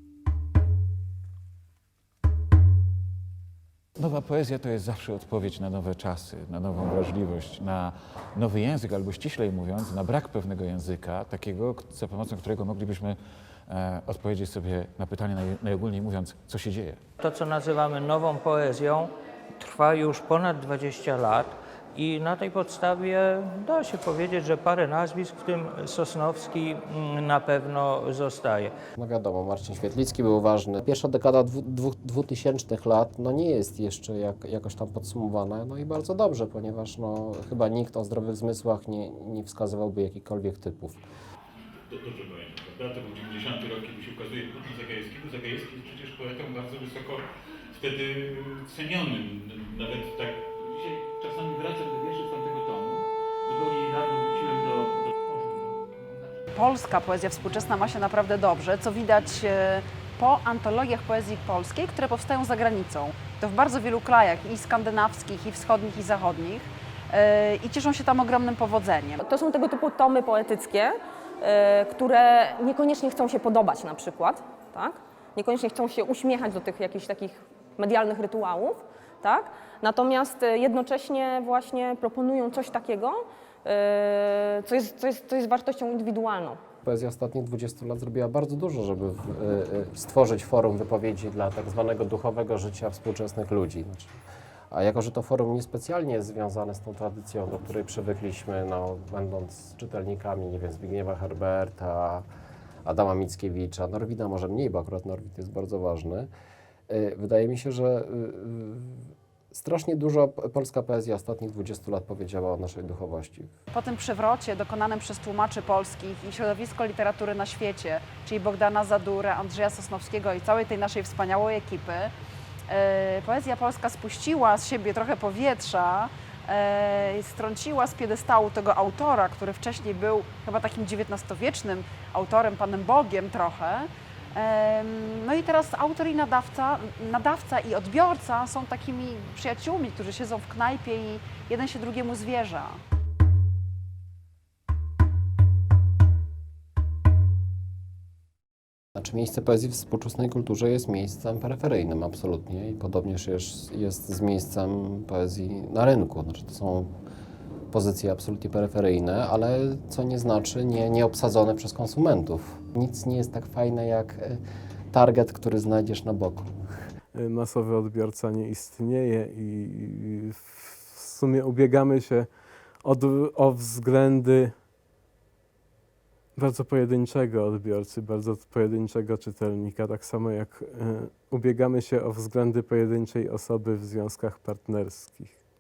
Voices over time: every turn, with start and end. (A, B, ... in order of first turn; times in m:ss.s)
0:04.0-0:17.0 A
0:17.2-0:28.7 B
0:29.0-0:41.0 C
0:41.9-0:47.2 D
0:47.7-0:55.7 D
0:56.5-1:09.2 E
1:09.2-1:26.6 F
1:26.8-1:34.2 C
1:34.7-1:42.3 C
1:42.9-1:46.3 C
1:46.9-1:53.5 C
1:53.7-2:02.1 E
2:02.7-2:22.8 E
2:29.0-2:36.9 C
2:37.7-2:44.4 C
2:44.9-2:46.7 C
2:47.1-2:54.6 G
2:56.4-3:05.4 G